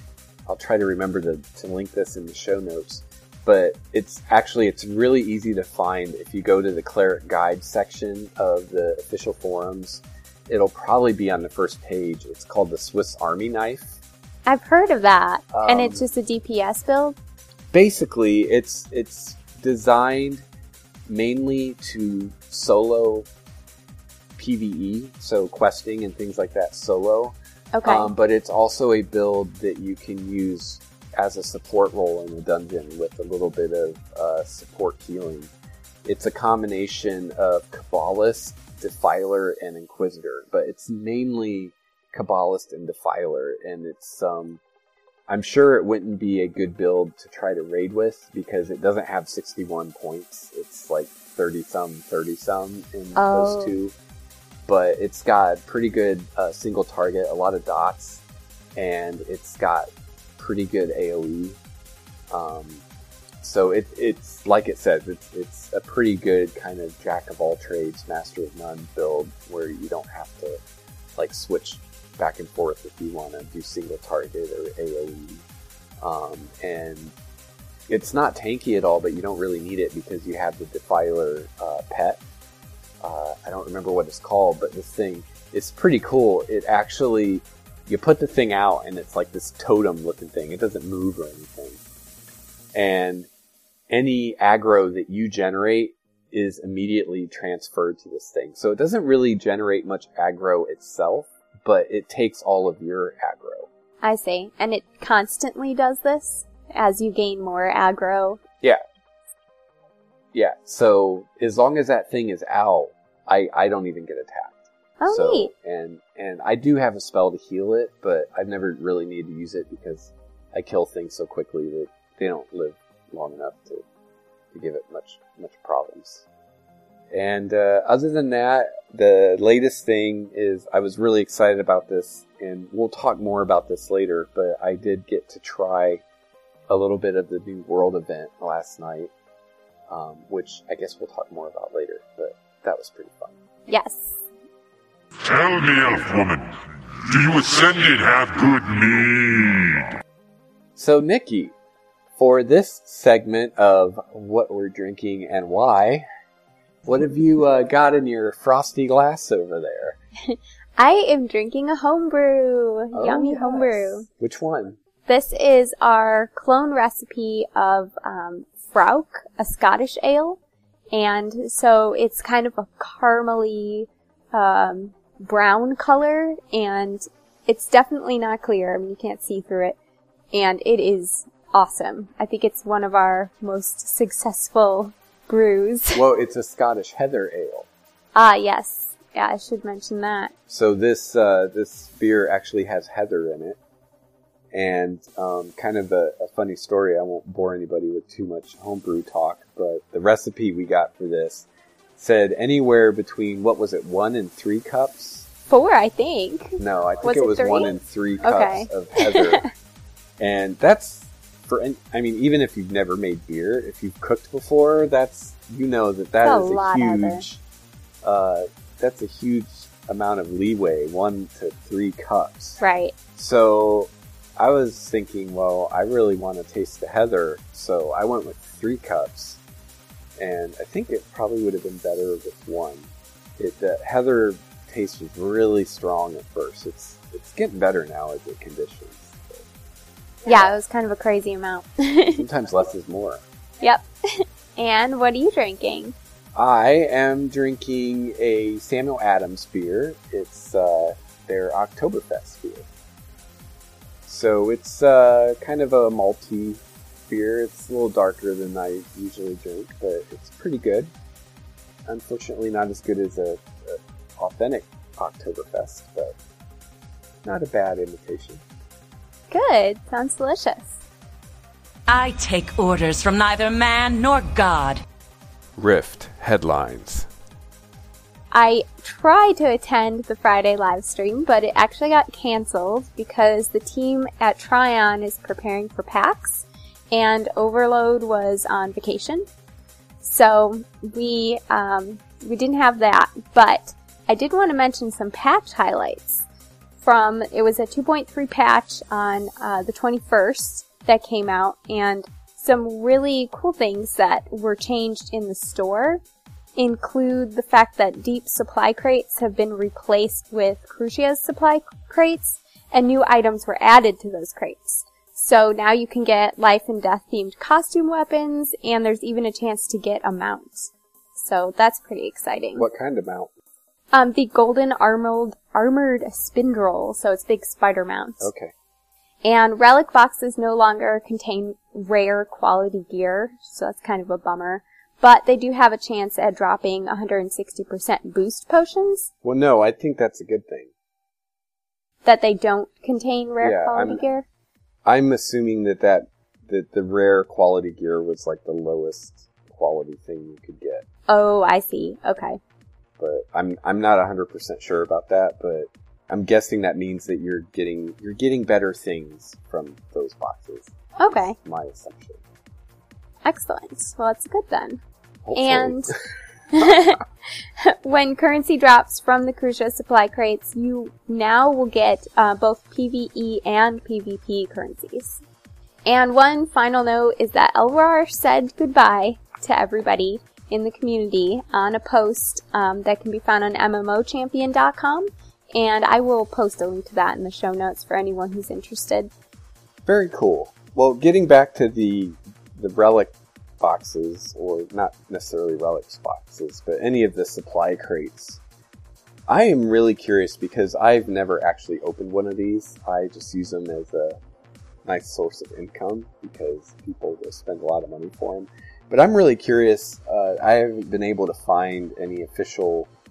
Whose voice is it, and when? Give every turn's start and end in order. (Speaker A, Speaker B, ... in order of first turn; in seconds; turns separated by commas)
Speaker A: 0.5-14.0, Speaker B: 14.5-17.2, Speaker A: 15.5-16.0, Speaker A: 17.7-20.4, Speaker A: 21.1-23.3, Speaker A: 24.4-35.5, Speaker B: 27.7-28.1, Speaker A: 36.0-44.6, Speaker A: 45.3-53.9, Speaker B: 53.2-53.8, Speaker A: 54.7-58.2, Speaker A: 58.8-61.6, Speaker A: 62.3-62.8, Speaker A: 63.4-70.6, Speaker A: 71.2-75.4, Speaker A: 76.0-77.1, Speaker A: 77.9-82.2, Speaker A: 83.0-91.8, Speaker A: 92.7-93.3, Speaker A: 93.9-103.7, Speaker B: 104.0-108.4, Speaker A: 110.3-123.8, Speaker B: 115.0-115.5, Speaker A: 124.5-126.3, Speaker A: 127.1-136.0, Speaker A: 136.7-139.1, Speaker A: 139.9-143.3, Speaker B: 143.7-144.2, Speaker C: 145.2-146.5, Speaker C: 147.1-149.9, Speaker A: 150.8-151.5, Speaker A: 152.2-156.1, Speaker A: 156.8-160.0, Speaker B: 160.3-164.1, Speaker A: 162.9-164.8, Speaker B: 165.1-170.4, Speaker B: 170.9-179.8, Speaker B: 180.3-186.0, Speaker A: 185.9-187.7, Speaker B: 188.2-190.3, Speaker A: 190.5-193.6, Speaker A: 194.5-205.3, Speaker B: 205.5-209.5, Speaker A: 206.6-209.4, Speaker A: 210.2-217.4, Speaker B: 216.2-217.2, Speaker A: 218.0-222.6, Speaker B: 222.6-222.9, Speaker A: 223.2-229.4, Speaker A: 230.2-239.5, Speaker A: 240.2-240.5, Speaker B: 240.3-242.2, Speaker A: 242.0-243.2, Speaker B: 243.6-245.9, Speaker A: 246.3-252.7, Speaker A: 254.1-260.9, Speaker A: 261.9-266.1, Speaker A: 267.2-268.4, Speaker B: 269.3-270.8, Speaker D: 271.9-274.8, Speaker A: 275.6-277.1, Speaker B: 278.3-289.3, Speaker B: 290.0-296.3, Speaker B: 296.8-306.0, Speaker B: 306.6-322.7, Speaker A: 322.6-323.3, Speaker B: 323.9-328.3, Speaker A: 328.2-328.5, Speaker B: 329.2-339.1, Speaker A: 339.2-340.7, Speaker B: 342.1-344.2, Speaker A: 343.4-344.0, Speaker A: 344.9-350.9, Speaker B: 351.1-352.4, Speaker A: 353.0-362.2, Speaker B: 361.0-361.4, Speaker B: 363.2-364.8, Speaker A: 365.2-366.0, Speaker B: 365.3-365.9, Speaker B: 366.5-375.2, Speaker B: 375.9-389.1, Speaker A: 389.9-398.4, Speaker A: 399.3-404.2, Speaker A: 404.9-412.9